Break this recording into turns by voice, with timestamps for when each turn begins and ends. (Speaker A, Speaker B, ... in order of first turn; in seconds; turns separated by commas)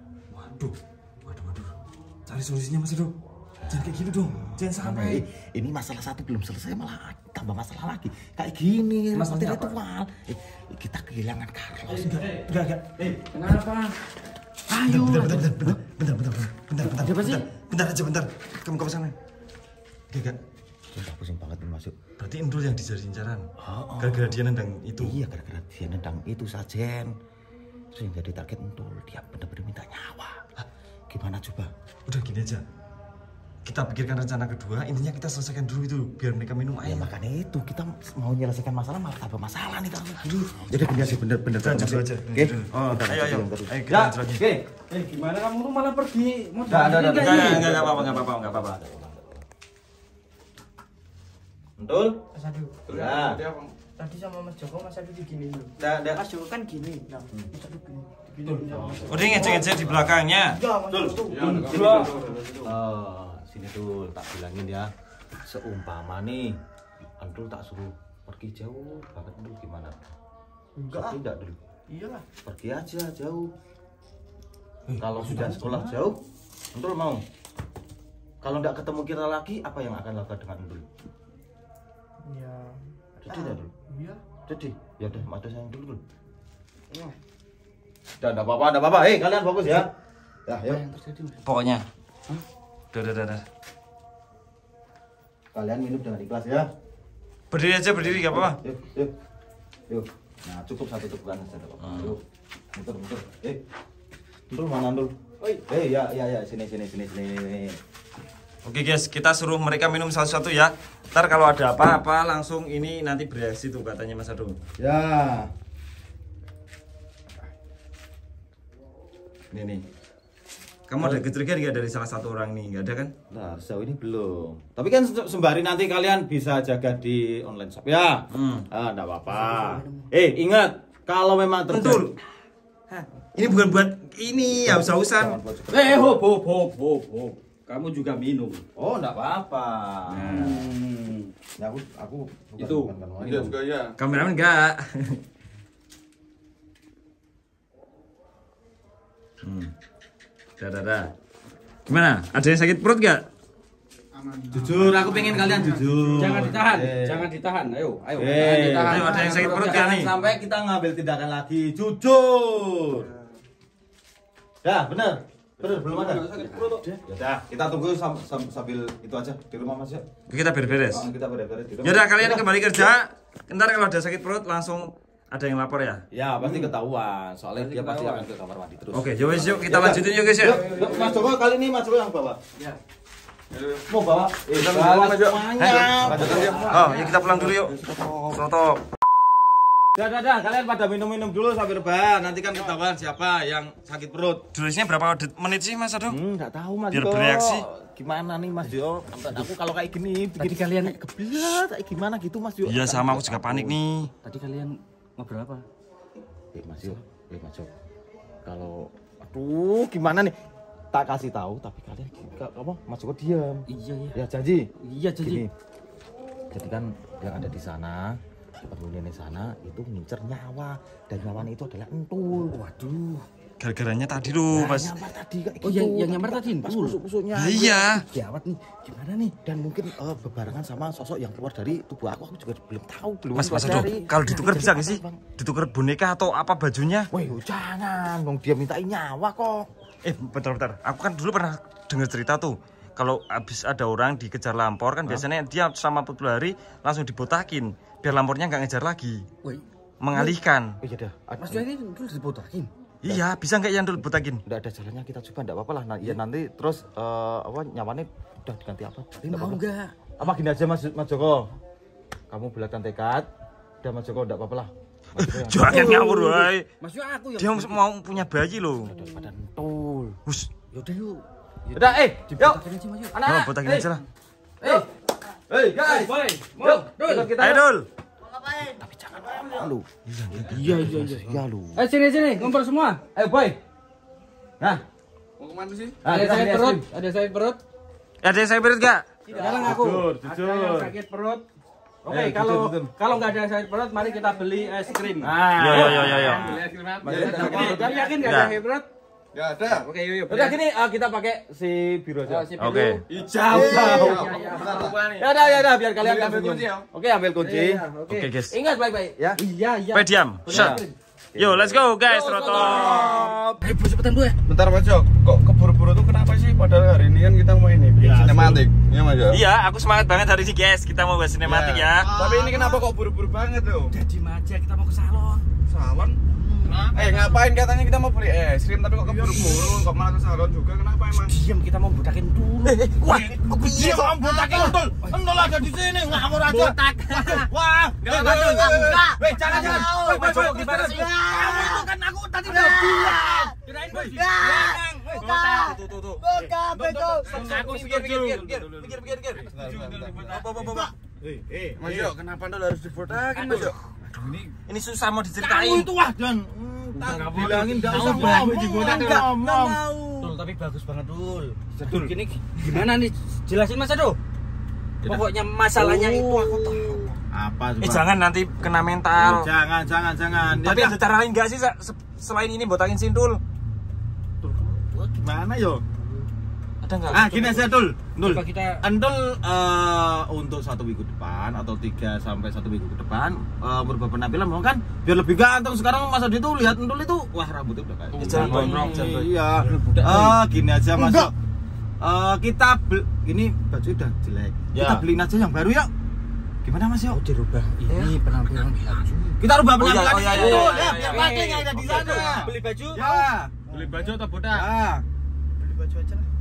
Speaker A: 0.3-1.7, Speaker A: 2.3-3.1, Speaker B: 3.6-12.3, Speaker A: 3.7-5.2, Speaker A: 9.1-9.8, Speaker A: 11.9-13.5, Speaker C: 13.3-13.9, Speaker C: 14.7-15.8, Speaker A: 14.8-19.1, Speaker C: 16.8-17.4, Speaker A: 20.1-20.4, Speaker B: 20.9-22.0, Speaker A: 22.2-23.5, Speaker B: 23.6-24.4, Speaker A: 24.0-25.2, Speaker B: 25.0-27.1, Speaker B: 27.9-30.5, Speaker B: 31.1-31.7, Speaker A: 32.1-32.6, Speaker A: 33.6-37.1, Speaker B: 36.8-44.7, Speaker A: 40.4-44.5, Speaker C: 44.9-47.7, Speaker B: 46.6-49.4, Speaker A: 47.2-48.8, Speaker B: 51.8-52.2, Speaker D: 52.3-52.8, Speaker E: 52.9-53.7, Speaker B: 52.9-53.4, Speaker D: 54.0-59.7, Speaker B: 55.8-56.2, Speaker B: 58.4-60.0, Speaker A: 59.1-60.6, Speaker D: 60.5-62.4, Speaker B: 60.9-62.1, Speaker E: 61.2-62.7, Speaker B: 62.6-66.6, Speaker B: 67.2-70.0, Speaker D: 70.8-71.2, Speaker B: 70.9-71.6, Speaker D: 71.9-72.2, Speaker B: 72.4-73.5, Speaker C: 74.9-76.0, Speaker B: 75.0-76.2, Speaker B: 76.7-77.2, Speaker B: 78.4-80.9, Speaker D: 82.2-84.2, Speaker B: 83.2-83.7, Speaker B: 84.5-86.0, Speaker B: 88.2-89.9, Speaker B: 90.5-90.8, Speaker C: 90.7-91.4, Speaker A: 91.4-91.8, Speaker A: 92.9-93.5, Speaker B: 95.5-96.7, Speaker A: 97.5-98.6, Speaker B: 98.1-99.1, Speaker B: 99.9-102.2, Speaker A: 101.8-102.1, Speaker B: 102.7-103.6, Speaker B: 104.5-105.1, Speaker B: 105.7-107.8, Speaker A: 108.6-114.6, Speaker B: 114.8-115.5, Speaker A: 119.5-119.8, Speaker A: 120.9-123.1, Speaker B: 123.3-132.1, Speaker A: 128.3-128.7, Speaker C: 129.3-130.1, Speaker A: 131.7-132.2, Speaker A: 132.9-135.4, Speaker B: 134.6-136.2, Speaker C: 135.7-138.6, Speaker B: 138.8-140.7, Speaker A: 140.1-140.6, Speaker C: 140.3-141.3, Speaker B: 141.6-143.6, Speaker C: 142.6-142.9, Speaker E: 143.2-144.0, Speaker A: 144.0-145.2, Speaker A: 149.4-149.7, Speaker A: 150.6-151.1, Speaker A: 151.9-153.3, Speaker E: 154.2-155.8, Speaker B: 154.5-157.3, Speaker C: 156.2-159.9, Speaker B: 158.2-163.1, Speaker A: 158.9-160.1, Speaker E: 162.9-163.2, Speaker B: 164.6-170.1, Speaker E: 165.9-167.0, Speaker A: 170.3-171.0, Speaker B: 170.9-172.9, Speaker A: 171.8-176.0, Speaker B: 176.1-182.4, Speaker C: 177.6-178.2, Speaker A: 178.9-180.7, Speaker C: 180.6-181.1, Speaker E: 183.5-183.9, Speaker B: 183.9-187.1, Speaker E: 184.5-188.4, Speaker C: 186.2-187.0, Speaker A: 186.7-187.8, Speaker A: 188.3-188.8, Speaker B: 189.9-194.5, Speaker A: 194.5-196.2, Speaker B: 196.1-203.8, Speaker A: 196.9-197.7, Speaker C: 200.4-201.6, Speaker A: 202.7-204.1, Speaker C: 204.2-205.6, Speaker B: 206.6-207.7, Speaker B: 208.4-210.4, Speaker B: 210.9-214.7, Speaker C: 213.7-214.2, Speaker C: 214.8-215.4, Speaker B: 215.2-215.5, Speaker B: 216.5-222.6, Speaker C: 222.4-223.2, Speaker A: 223.6-224.9, Speaker B: 224.5-228.2, Speaker C: 225.6-227.0, Speaker A: 227.3-228.1, Speaker C: 228.1-229.3, Speaker B: 229.2-235.2, Speaker A: 233.3-237.1, Speaker C: 233.5-234.6, Speaker B: 237.1-239.7, Speaker A: 240.0-249.3, Speaker C: 249.4-250.3, Speaker A: 250.0-250.8, Speaker B: 250.8-251.7, Speaker C: 251.4-252.7, Speaker A: 253.0-254.4, Speaker B: 254.5-259.6, Speaker C: 259.2-259.9, Speaker B: 260.2-261.5, Speaker B: 262.3-263.3, Speaker B: 263.8-266.5, Speaker A: 265.1-266.7, Speaker C: 265.7-266.2, Speaker C: 266.8-267.9, Speaker A: 267.4-268.9, Speaker B: 268.8-270.2, Speaker C: 268.9-269.3, Speaker C: 270.7-273.1, Speaker B: 271.7-272.6, Speaker B: 273.1-273.9, Speaker A: 273.2-274.0, Speaker B: 274.6-274.9, Speaker C: 274.6-274.9, Speaker B: 275.5-277.7, Speaker C: 275.8-277.3, Speaker A: 277.4-277.9, Speaker D: 278.2-278.8, Speaker B: 278.8-281.8, Speaker D: 279.3-279.7, Speaker A: 280.1-280.9, Speaker C: 280.5-283.0, Speaker B: 283.1-283.6, Speaker E: 285.4-286.0, Speaker B: 286.0-286.8, Speaker C: 286.1-287.6, Speaker A: 288.2-289.1, Speaker C: 289.3-291.4, Speaker B: 289.3-290.9, Speaker E: 289.3-289.7, Speaker B: 292.0-292.9, Speaker C: 292.1-298.9, Speaker D: 294.2-294.8, Speaker B: 295.2-298.5, Speaker A: 295.6-296.6, Speaker E: 296.3-298.3, Speaker A: 298.2-298.5, Speaker E: 299.3-299.9, Speaker C: 299.7-300.6, Speaker B: 300.3-302.5, Speaker C: 302.3-305.0, Speaker A: 302.6-303.0, Speaker E: 303.1-305.3, Speaker B: 303.4-307.8, Speaker E: 305.8-306.9, Speaker C: 307.4-310.9, Speaker A: 308.1-308.5, Speaker B: 309.1-309.4, Speaker A: 309.9-310.8, Speaker B: 310.5-311.9, Speaker A: 311.4-313.1, Speaker C: 312.1-314.4, Speaker B: 312.6-313.7, Speaker E: 313.0-313.2, Speaker E: 314.5-319.4, Speaker B: 318.0-318.6, Speaker A: 319.3-322.1, Speaker E: 321.4-323.9, Speaker C: 323.9-325.5, Speaker E: 325.7-326.2, Speaker C: 326.3-327.3, Speaker E: 326.9-331.3, Speaker C: 329.2-329.7, Speaker C: 331.1-334.1, Speaker B: 332.6-344.2, Speaker D: 333.8-334.8, Speaker C: 335.0-335.6, Speaker C: 336.1-337.5, Speaker E: 338.0-338.9, Speaker C: 338.2-338.7, Speaker D: 338.2-341.9, Speaker C: 339.2-341.1, Speaker D: 342.5-347.5, Speaker C: 343.6-345.8, Speaker B: 345.3-352.1, Speaker C: 347.3-348.6, Speaker E: 347.3-347.7, Speaker A: 347.6-349.0, Speaker E: 349.5-350.4, Speaker C: 349.6-350.5, Speaker E: 351.8-354.3, Speaker C: 353.2-353.8, Speaker B: 353.4-353.7, Speaker A: 354.3-355.9, Speaker B: 355.4-360.3, Speaker C: 356.9-364.2, Speaker B: 361.8-362.1, Speaker C: 365.0-367.2, Speaker A: 365.8-367.0, Speaker B: 367.3-368.1, Speaker A: 367.8-369.5, Speaker B: 369.2-371.0, Speaker A: 370.5-373.4, Speaker B: 374.4-375.8, Speaker A: 376.8-377.7, Speaker B: 377.1-391.3, Speaker C: 378.2-378.8, Speaker A: 388.1-389.3, Speaker C: 388.4-389.1, Speaker C: 389.6-390.4, Speaker D: 390.9-391.3, Speaker B: 392.0-395.9, Speaker A: 394.7-395.0, Speaker B: 396.6-398.2, Speaker C: 397.2-399.3, Speaker B: 399.3-403.6, Speaker A: 399.8-401.3, Speaker C: 400.2-404.7, Speaker E: 403.8-404.1, Speaker B: 404.5-405.0, Speaker D: 405.7-406.2